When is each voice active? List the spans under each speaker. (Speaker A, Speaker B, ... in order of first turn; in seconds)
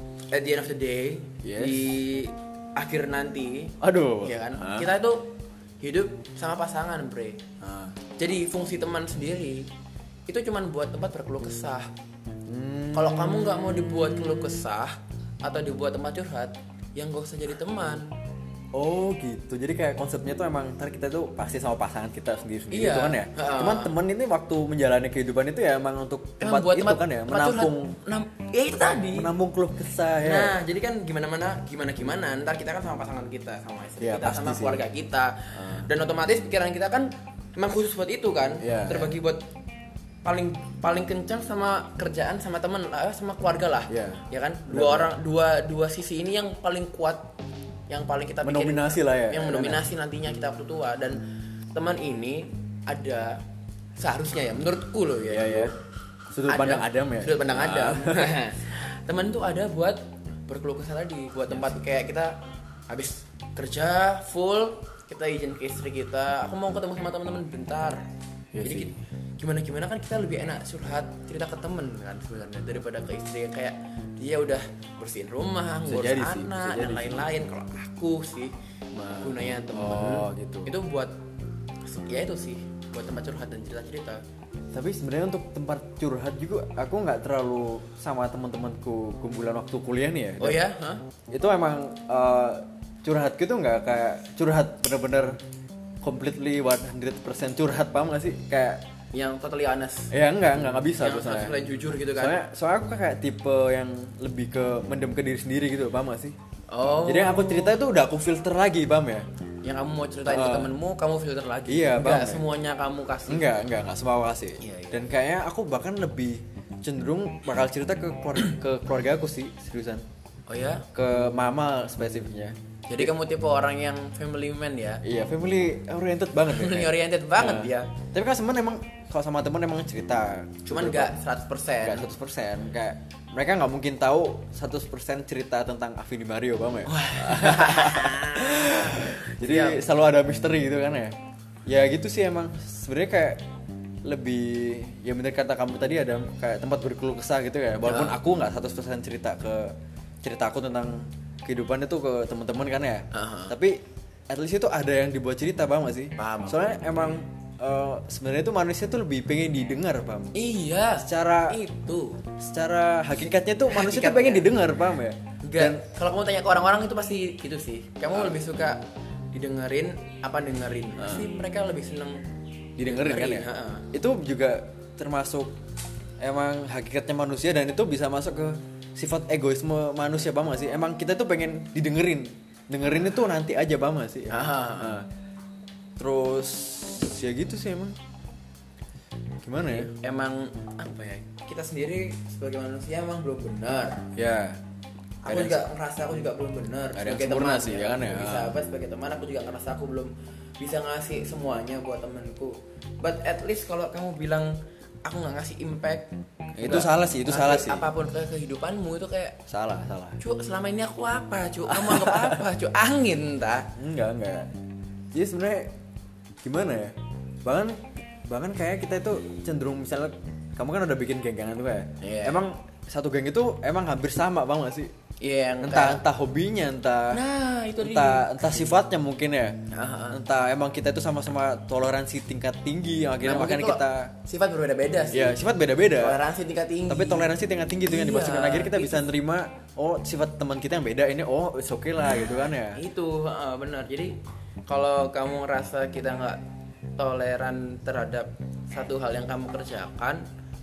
Speaker A: 0.3-7.4, 8.2-9.7, 10.3-11.9, 12.9-18.1, 22.7-23.9, 26.4-29.3, 30.2-39.4, 40.2-47.3, 47.9-51.2, 51.7-53.4, 54.0-55.8, 56.5-62.4, 62.9-68.0, 68.6-78.5, 79.2-81.1, 81.8-84.2, 90.4-91.0, 99.1-100.1, 101.0-102.4, 106.7-107.8, 109.6-113.5, 114.6-115.1, 120.5-120.9, 122.9-125.0, 126.5-127.9, 130.7-132.1, 136.9-139.8, 147.8-148.2, 153.1-153.5, 156.2-157.1, 160.3-162.2, 163.7-164.5, 165.4-172.2, 172.8-173.9, 184.3-185.0, 189.8-194.1, 195.2-204.5, 205.1-209.4, 210.2-213.7, 222.0-222.4, 225.2-226.0, 227.1-228.7, 229.7-230.2, 233.2-235.4, 236.0-237.3, 237.8-239.0, 242.1-244.2, 244.7-246.4, 247.0-250.2
Speaker B: 1.4-1.9, 3.8-4.9, 7.6-8.0, 12.5-14.4, 18.7-28.0, 29.1-30.6, 34.0-34.8, 35.5-35.9, 38.6-39.1, 43.9-45.1, 48.4-49.9, 55.3-55.7, 56.3-58.4, 68.5-68.9, 75.9-77.2, 78.9-80.7, 84.7-90.6, 91.3-95.4, 96.0-98.8, 100.1-101.5, 102.2-106.3, 107.0-109.3, 110.3-110.7, 111.7-112.5, 113.3-120.0, 120.9-123.1, 125.0-131.1, 131.8-141.2, 141.7-143.4, 144.1-160.3, 161.0-161.6, 162.4-165.8, 171.0-171.3, 172.8-175.5, 176.2-185.1, 186.0-188.0, 189.4-189.9, 194.2-194.6, 195.3-195.6, 197.0-198.6, 206.6-207.9, 209.5-210.2, 211.7-212.4, 213.8-214.5, 215.1-215.7, 216.4-224.9, 225.6-227.2, 227.8-229.6, 230.1-234.1, 235.1-236.2, 236.9-242.8